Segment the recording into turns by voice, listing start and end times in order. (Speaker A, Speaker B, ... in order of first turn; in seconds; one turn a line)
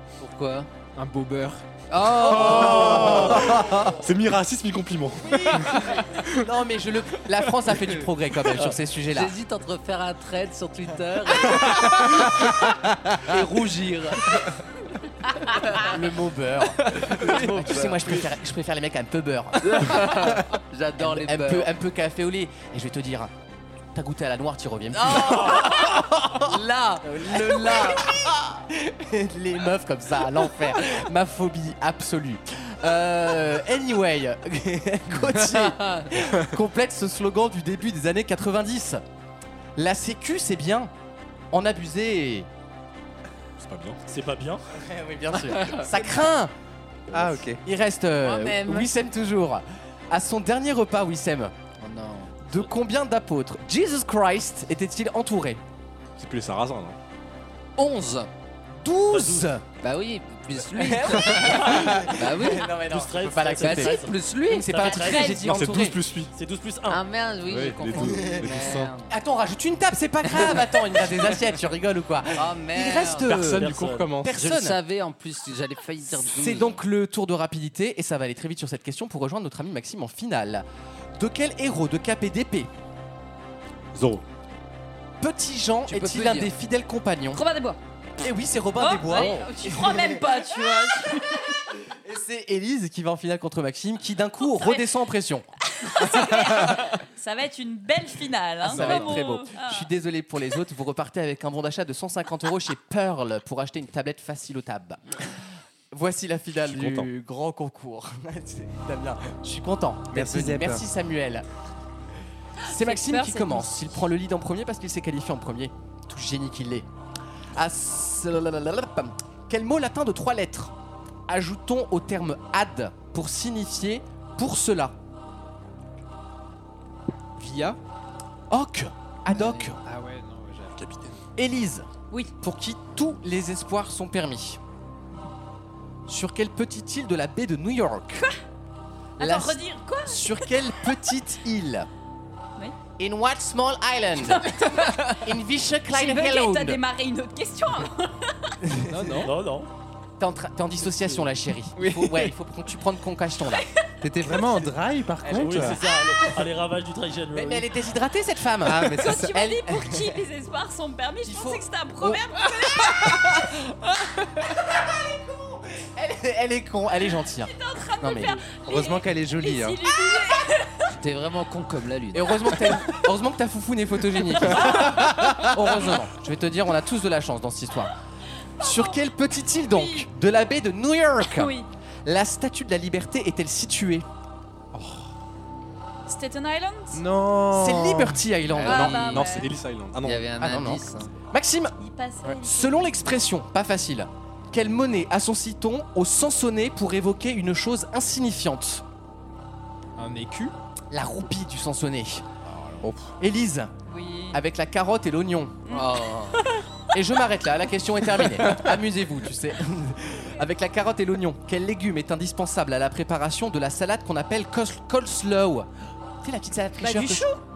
Speaker A: 0.2-0.7
Speaker B: 0.9-1.6
Speaker A: 1.9-3.5
Speaker C: 2.1-4.0
Speaker D: 2.2-5.7
Speaker C: 5.2-9.3
Speaker A: 9.1-12.5
Speaker A: 13.2-14.4
Speaker C: 13.3-14.3
Speaker A: 15.5-15.9
Speaker C: 15.8-20.4
Speaker A: 17.0-18.2
Speaker A: 19.6-21.7
Speaker C: 21.0-23.3
Speaker C: 23.9-26.5
Speaker A: 24.9-28.1
Speaker C: 27.0-39.0
Speaker A: 35.8-36.1
Speaker C: 39.8-40.9
Speaker C: 41.5-42.5
Speaker D: 43.6-44.0
Speaker E: 44.1-44.6
Speaker C: 44.7-46.5
Speaker F: 47.1-47.6
Speaker C: 47.6-51.5
Speaker A: 48.2-48.9
Speaker A: 51.8-52.7
Speaker C: 52.4-55.6
Speaker D: 56.2-57.0
Speaker A: 57.8-58.3
Speaker C: 58.8-59.6
Speaker E: 59.1-59.5
Speaker A: 59.8-62.7
Speaker C: 60.7-66.0
Speaker E: 61.3-62.1
Speaker E: 62.6-65.5
Speaker A: 63.6-64.9
Speaker G: 64.8-65.7
Speaker D: 65.4-66.3
Speaker E: 66.3-67.0
Speaker A: 66.9-69.1
Speaker D: 67.5-68.9
Speaker C: 68.3-68.5
Speaker C: 69.1-74.8
Speaker A: 72.3-73.3
Speaker E: 73.3-74.1
Speaker D: 73.3-74.3
Speaker A: 74.3-76.8
Speaker C: 76.1-80.6
Speaker C: 81.2-82.7
Speaker D: 83.9-84.2
Speaker C: 85.2-87.4
Speaker A: 85.9-86.5
Speaker G: 87.3-87.8
Speaker C: 88.2-90.2
Speaker G: 88.8-91.4
Speaker C: 91.9-95.5
Speaker G: 94.4-94.9
Speaker G: 95.8-99.9
Speaker C: 98.6-105.2
Speaker B: 98.7-99.1
Speaker C: 105.9-111.4
Speaker D: 106.6-107.1
Speaker F: 110.1-110.8
Speaker G: 112.6-113.9
Speaker C: 112.7-116.9
Speaker C: 117.5-120.7
Speaker C: 121.3-125.0
Speaker B: 127.4-127.8
Speaker C: 128.5-129.8
Speaker B: 129.3-130.7
Speaker D: 130.8-131.1
Speaker C: 131.4-131.9
Speaker C: 132.4-134.6
Speaker C: 136.1-138.3
Speaker G: 139.2-140.7
Speaker C: 139.2-141.9
Speaker C: 143.0-146.8
Speaker G: 144.3-145.3
Speaker G: 145.9-148.5
Speaker B: 148.9-149.3
Speaker E: 149.2-149.7
Speaker C: 150.2-153.7
Speaker B: 151.8-152.3
Speaker F: 154.0-155.8
Speaker C: 155.2-155.9
Speaker E: 155.3-157.7
Speaker C: 157.3-160.1
Speaker F: 158.6-159.4
Speaker G: 158.9-163.6
Speaker C: 161.3-162.2
Speaker C: 165.8-168.3
Speaker G: 167.4-170.9
Speaker F: 168.7-169.8
Speaker A: 170.9-172.5
Speaker C: 172.1-177.9
Speaker G: 174.4-175.5
Speaker G: 178.6-179.0
Speaker C: 178.6-184.1
Speaker G: 179.6-180.1
Speaker G: 181.3-181.7
Speaker G: 186.1-187.0
Speaker F: 186.9-188.2
Speaker C: 187.5-189.2
Speaker A: 188.5-189.2
Speaker D: 188.6-190.3
Speaker G: 188.6-189.5
Speaker A: 190.0-191.1
Speaker C: 190.4-198.8
Speaker G: 191.8-193.2
Speaker B: 200.0-200.5
Speaker C: 200.9-202.3
Speaker B: 202.5-203.0
Speaker C: 203.2-203.7
Speaker G: 203.9-204.4
Speaker C: 204.3-205.6
Speaker G: 205.7-206.7
Speaker A: 205.7-206.4
Speaker C: 206.9-215.7
Speaker C: 216.2-217.3
Speaker G: 216.8-217.4